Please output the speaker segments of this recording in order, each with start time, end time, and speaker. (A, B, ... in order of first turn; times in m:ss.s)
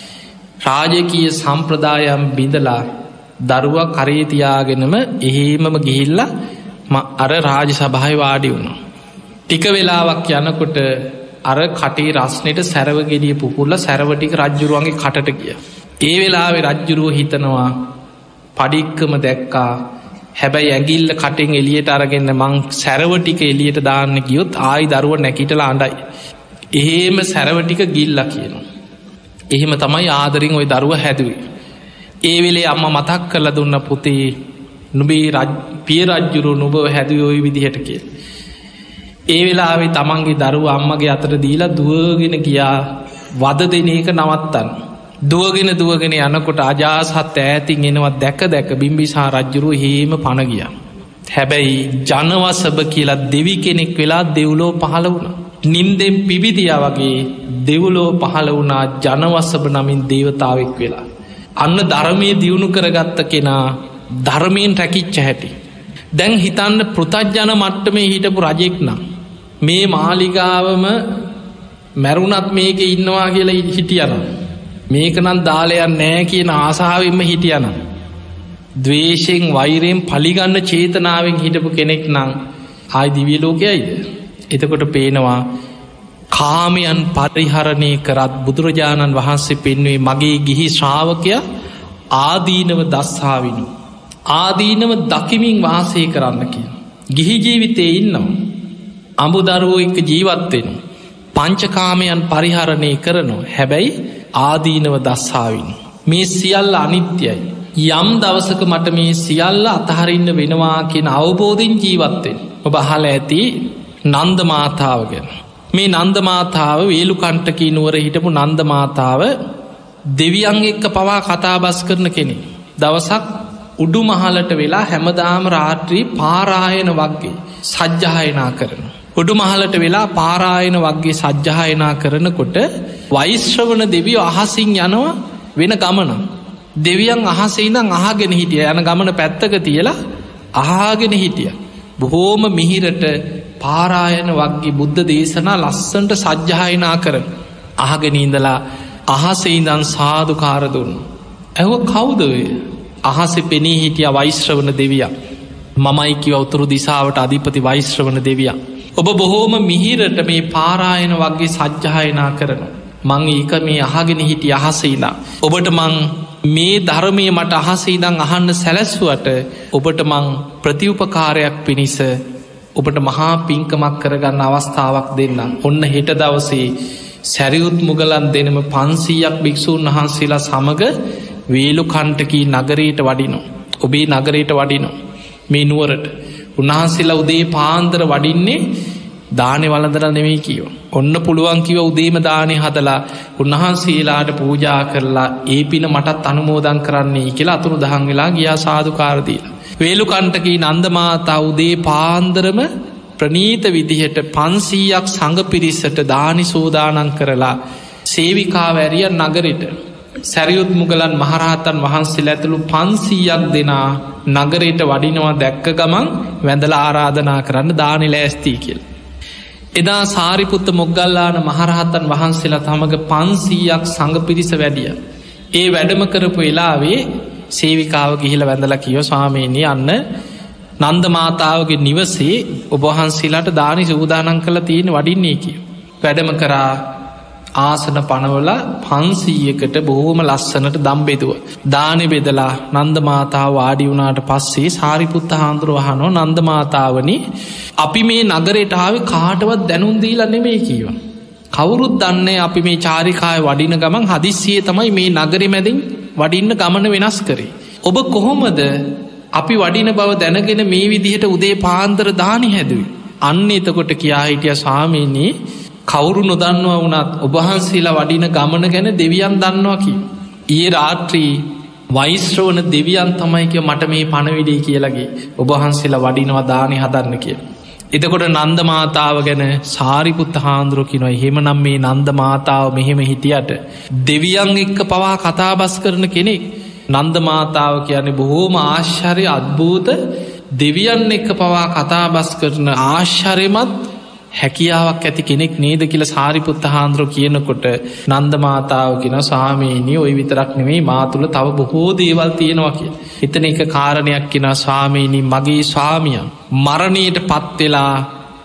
0:00.6-0:02.9 A
0:03.4-0:06.3 A
0:06.9-0:08.8 A
0:09.5-0:17.8 A
0:18.6-0:19.8 A
0:20.4-0:26.0 A
0:26.7-0:28.6 A
0:29.5-0:31.4 A
0:32.2-0:34.4 A
0:34.9-0:38.0 A
0:39.3-0:42.8 A
0:43.4-0:44.7 A
0:45.3-0:50.7 A
0:51.3-1:01.0 A
1:01.6-1:05.6 A
1:06.1-1:09.0 A
1:09.6-1:11.0 A
1:12.0-1:14.3 A
1:14.9-1:17.8 A
1:18.8-1:22.4 A
1:22.9-1:25.4 A
1:26.3-1:31.4 A
1:32.1-1:33.7 A
1:34.3-1:38.4 A
1:39.2-1:40.8 A
1:41.4-1:59.3 A
2:00.1-2:16.2 A
2:16.8-2:20.0 A
2:20.6-2:27.2 A
2:27.8-2:31.1 A
2:31.6-2:35.1 A
2:35.8-2:52.2 A
2:52.8-2:56.7 A
2:57.2-3:00.9 A
3:01.5-3:04.9 A
3:05.5-3:08.6 A
3:09.3-3:29.7 A
3:30.2-3:38.8 A
3:39.8-3:45.0 A
3:45.5-3:50.0 A
3:50.8-3:56.8 A
3:57.6-4:07.2 A
4:07.8-4:11.0 A
4:11.5-4:25.3 A
4:25.9-4:37.4 A
4:37.9-4:50.0 A
4:50.6-4:53.9 A
4:54.4-5:08.1 A